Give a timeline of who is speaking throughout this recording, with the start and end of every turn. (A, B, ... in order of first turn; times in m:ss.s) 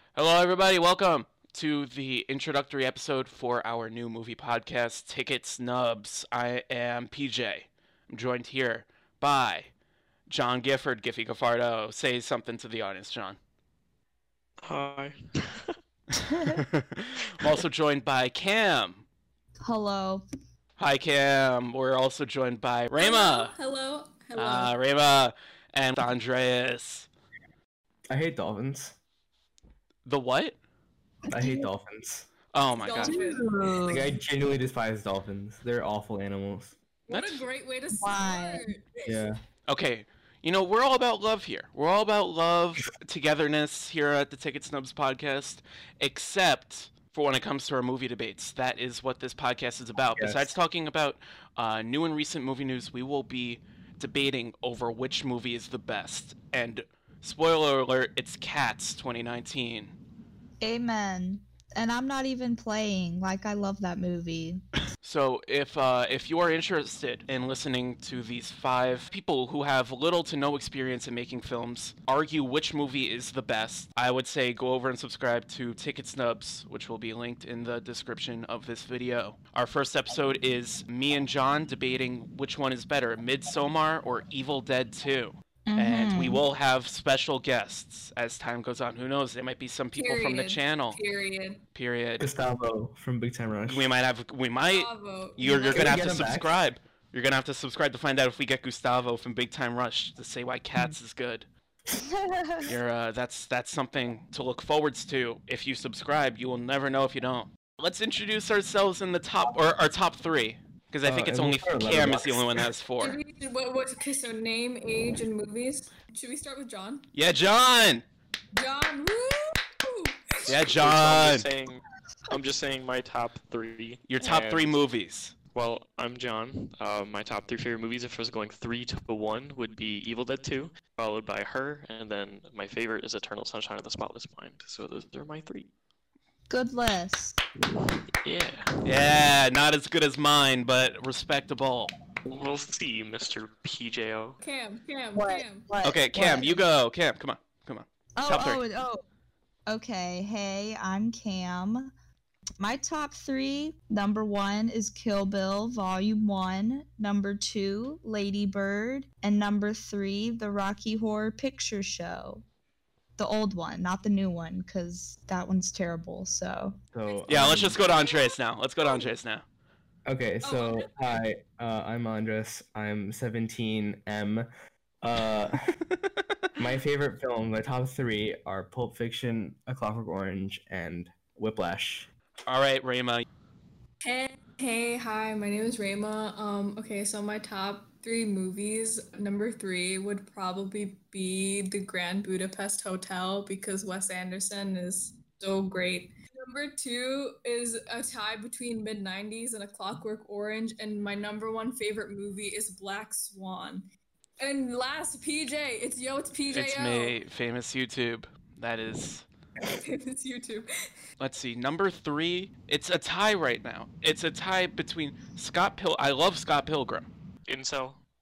0:00.1-0:09.7 A
0:10.3-0:13.4 A
0:14.6-0:15.7 B
0:16.3-0:16.6 C
0:16.5-0:19.0 A
0:19.6-0:20.2 C
0:20.8-0:23.5 A
0:22.9-0:24.7 D
0:24.3-0:27.1 A
0:28.1-0:29.0 E
0:30.0-0:30.6 A
0:31.3-0:31.7 C
0:31.3-0:32.3 E
0:32.5-0:33.2 A
0:32.6-0:33.5 D
0:33.0-0:34.1 C
0:33.9-0:36.8 E
0:37.1-0:39.3 D
0:37.1-0:37.4 A
0:37.9-0:38.7 C
0:39.0-0:39.4 E
0:39.7-1:00.0 A
0:50.0-0:50.5 E
1:00.6-1:04.6 C
1:05.0-1:31.0 A
1:25.7-1:26.4 C
1:29.9-1:31.6 D
1:31.7-1:32.3 A
1:32.2-1:33.9 E
1:33.7-1:41.5 A
1:34.6-1:36.0 D
1:35.6-1:36.5 E
1:42.0-1:42.7 C
1:42.6-1:53.2 A
1:51.0-1:52.6 E
1:53.0-1:57.1 D
1:57.1-1:58.0 A
1:58.5-2:00.6 D
2:00.4-2:01.5 A
2:00.5-2:04.8 B
2:04.1-2:05.3 A
2:05.5-2:15.7 B
2:16.5-2:17.4 C
2:17.8-2:18.8 B
2:18.8-2:21.9 A
2:22.2-2:24.4 B
2:24.4-2:25.7 D
2:25.1-2:26.6 C
2:25.8-2:28.6 A
2:28.2-2:29.0 C
2:29.7-2:31.9 C
2:32.6-2:42.4 C
2:43.2-2:46.8 C
2:46.9-2:47.8 E
2:47.1-2:49.1 D
2:47.3-2:49.4 A
2:50.1-2:54.5 E
2:50.4-2:50.9 D
2:55.0-2:55.6 E
2:56.6-3:02.1 E
3:02.5-3:03.2 A
3:04.0-3:23.8 D
3:24.4-3:27.2 D
3:26.5-3:29.3 A
3:29.7-3:30.7 D
3:31.2-3:37.1 A
3:37.5-3:38.0 B